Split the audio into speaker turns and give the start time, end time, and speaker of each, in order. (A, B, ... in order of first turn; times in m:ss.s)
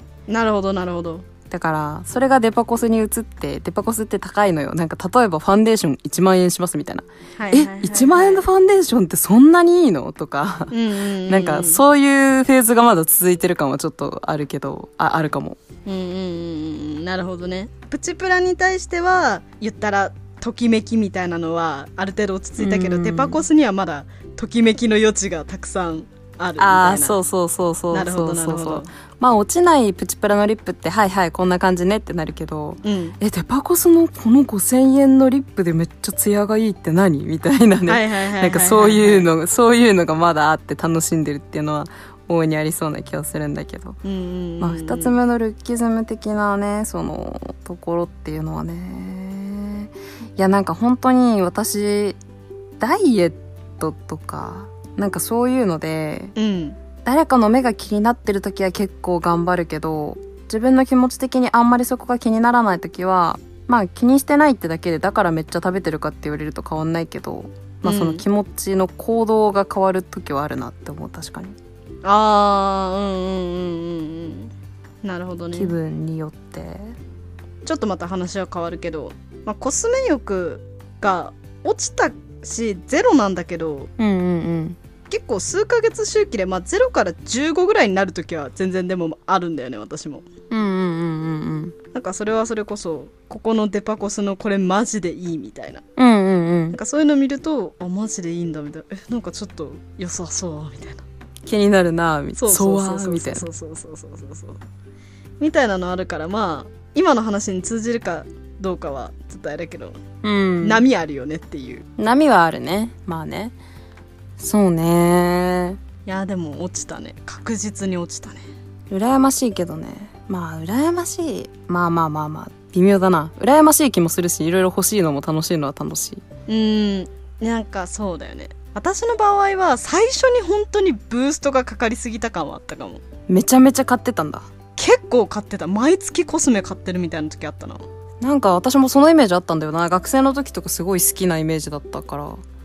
0:00.3-0:01.2 A
0:01.5-0:15.6 B
0:07.4-0:08.5 A
0:10.7-0:11.8 A
0:15.9-0:27.2 A
0:22.6-0:23.4 B
0:26.6-0:44.0 B
0:27.9-0:28.9 A
0:32.8-0:33.2 A
0:37.9-0:39.3 A
0:44.0-0:45.1 A
0:44.6-0:52.2 B
0:52.8-0:56.3 B
0:56.4-0:56.8 A
0:57.0-1:11.6 B
1:07.8-1:08.2 A
1:12.0-1:15.8 A
1:15.5-1:16.9 B
1:17.6-1:23.9 A
1:24.0-1:24.8 B
1:25.1-1:30.3 A
1:30.5-1:31.8 B
1:31.9-1:35.8 A
1:36.0-1:36.8 B
1:36.7-1:41.0 A
1:41.4-1:43.4 B
1:42.4-1:44.6 A
1:45.4-1:50.0 A
1:50.2-1:50.8 B
1:50.6-1:51.8 A
1:52.0-1:53.6 B
1:54.4-1:55.8 B
1:56.1-1:58.4 A
1:58.9-2:06.2 B
2:06.5-2:13.0 A
2:13.3-2:14.5 B
2:14.8-2:17.8 A
2:18.2-2:22.4 B